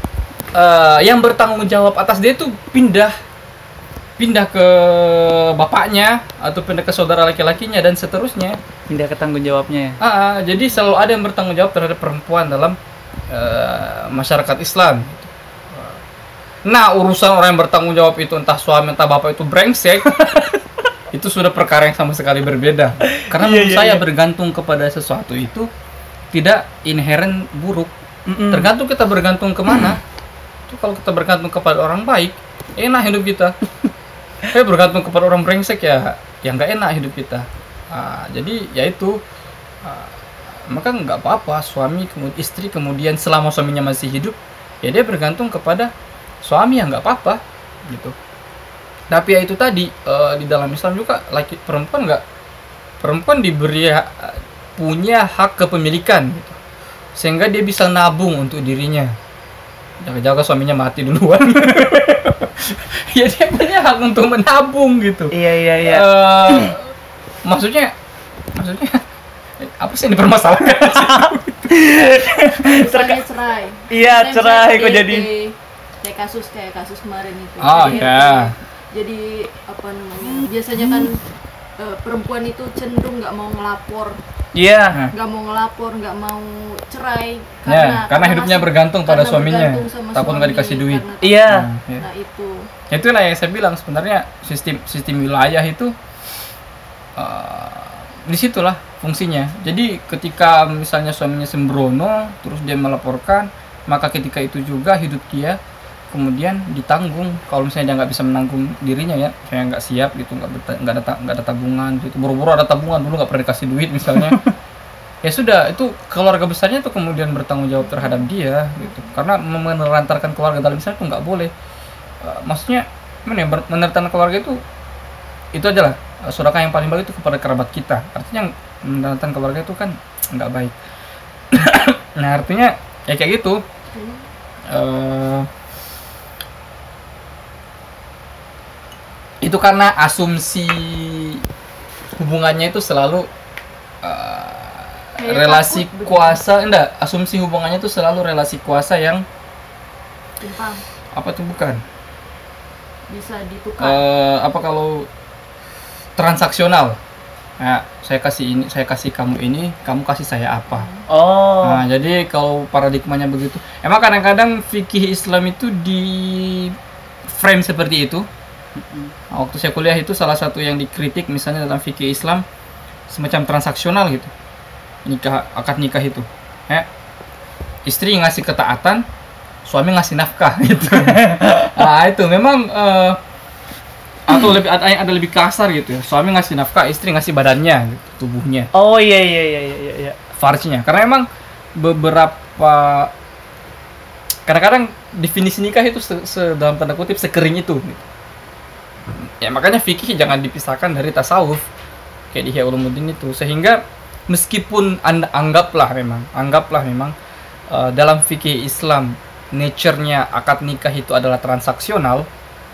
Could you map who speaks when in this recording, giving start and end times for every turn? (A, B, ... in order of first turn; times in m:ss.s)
0:00.5-0:03.1 A
0:04.2-0:08.6 A
0:08.9-0:10.0 B
0:10.0-0:12.8 A
0:13.3-0:16.0 A
0:16.6-0:20.3 A
0:21.1-0:25.7 A
0:23.1-0:24.0 B
0:26.3-0:27.9 A
0:28.3-0:28.7 B
0:28.5-0:30.0 A
0:29.7-0:29.9 B
0:30.7-0:33.5 A
0:34.5-0:39.2 A
0:39.8-0:45.9 A
0:46.4-0:48.1 A
0:49.1-0:52.2 A
0:53.0-0:56.6 A
0:57.2-0:59.1 A
1:00.0-1:06.9 A
1:05.3-1:06.7 B
1:07.4-1:07.9 A
1:08.5-1:09.0 A
1:09.6-1:12.0 A
1:11.0-1:13.2 B
1:12.6-1:21.2 C
1:13.9-1:15.2 B
1:17.6-1:18.5 A
1:17.8-1:18.1 B
1:21.8-1:24.2 C
1:24.5-1:25.0 B
1:25.1-1:32.7 C
1:27.7-1:32.0 A
1:31.2-1:31.7 B
1:32.9-1:35.9 A
1:37.2-1:45.6 A
1:46.1-1:54.4 A
1:55.2-2:01.5 A
2:02.2-2:04.6 A
2:05.5-2:10.7 A
2:11.5-2:13.6 A
2:13.9-2:14.3 C
2:14.7-2:15.5 A
2:19.4-2:21.4 A
2:22.2-2:23.3 A
2:24.0-2:29.2 A
2:25.2-2:26.4 C
2:30.4-2:30.8 C
2:31.1-2:31.8 A
2:33.1-2:34.0 C
2:33.8-2:35.1 A
2:36.2-2:37.0 A
2:37.6-2:40.9 A
2:40.7-2:41.0 C
2:41.1-2:41.8 B
2:41.6-2:46.7 A
2:47.2-2:48.2 A
2:48.8-2:49.1 B
2:49.3-2:52.4 A
2:53.1-2:54.3 A
2:55.0-2:56.9 A
2:57.8-2:59.0 A
2:59.6-3:03.2 A
3:01.0-3:01.7 B
3:04.2-3:08.7 A
3:08.7-3:10.2 B
3:10.4-3:13.1 A
3:14.5-3:18.0 A
3:19.2-3:21.6 A
3:22.3-3:27.1 A
3:27.7-3:32.3 A